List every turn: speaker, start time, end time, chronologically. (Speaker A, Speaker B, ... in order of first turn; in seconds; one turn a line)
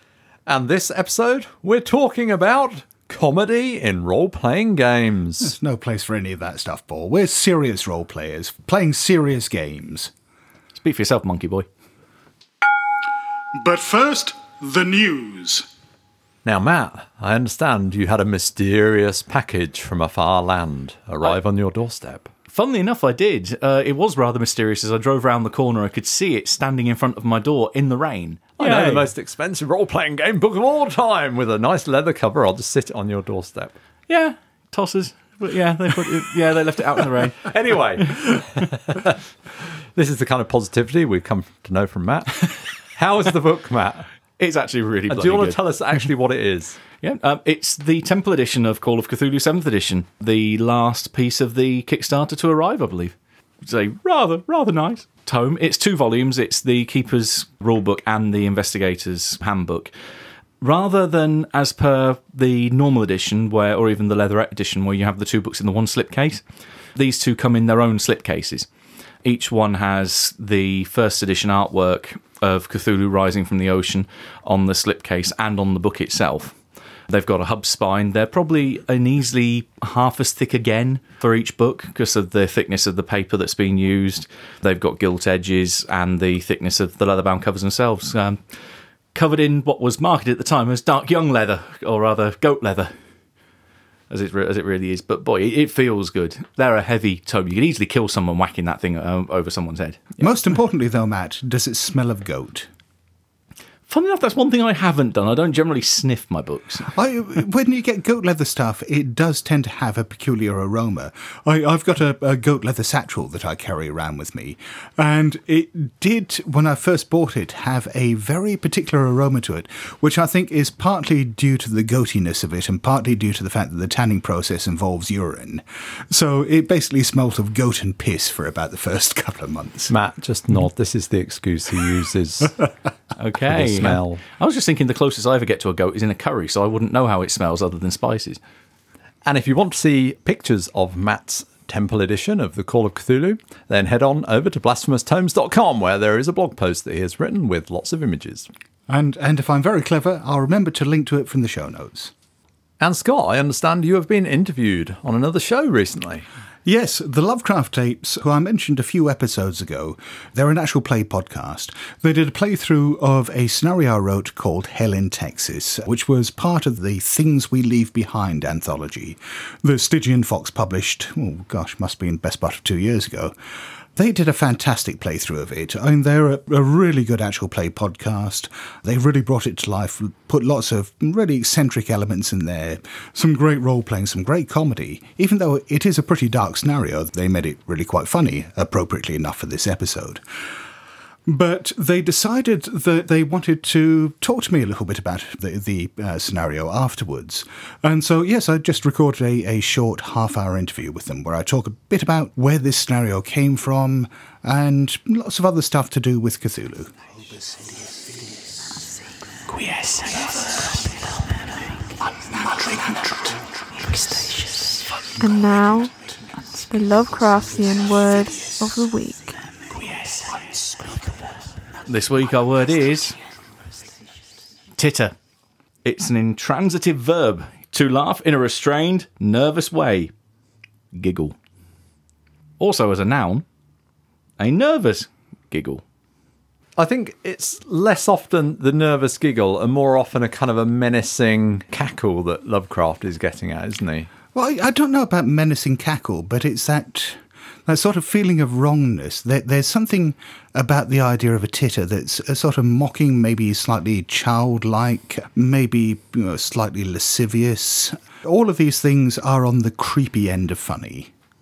Speaker A: 0.5-5.5
Speaker B: 5.4-10.1
Speaker C: 10.8-11.7
Speaker B: 13.5-15.7
Speaker A: 16.4-22.3
Speaker C: 22.5-29.1
Speaker A: 28.6-33.7
Speaker C: 34.1-38.1
Speaker A: 37.4-39.1
Speaker A: 39.9-44.1
Speaker C: 44.4-45.6
Speaker A: 45.1-46.8
Speaker C: 47.0-59.9
Speaker C: 60.6-66.4
Speaker C: 66.9-68.7
Speaker C: 69.2-76.6
Speaker C: 77.1-88.4
Speaker C: 89.1-92.9
Speaker C: 94.1-100.2
Speaker B: 100.2-102.7
Speaker C: 103.9-106.9
Speaker B: 106.8-129.9
Speaker A: 129.9-132.6
Speaker C: 133.2-138.4
Speaker A: 133.5-134.2
Speaker A: 139.2-148.5
Speaker B: 148.9-152.1
Speaker A: 152.8-156.2
Speaker B: 156.7-173.3
Speaker B: 173.9-190.2
Speaker B: 191.3-206.9
Speaker B: 207.5-208.1
Speaker B: 212.2-213.4
Speaker D: 215.2-215.9
Speaker D: 216.5-219.3
Speaker C: 221.8-223.2
Speaker C: 224.8-225.1
Speaker C: 225.8-230.1
Speaker C: 230.9-231.3
Speaker C: 232.6-233.4
Speaker C: 234.4-235.8
Speaker A: 236.8-244.1
Speaker B: 244.3-261.1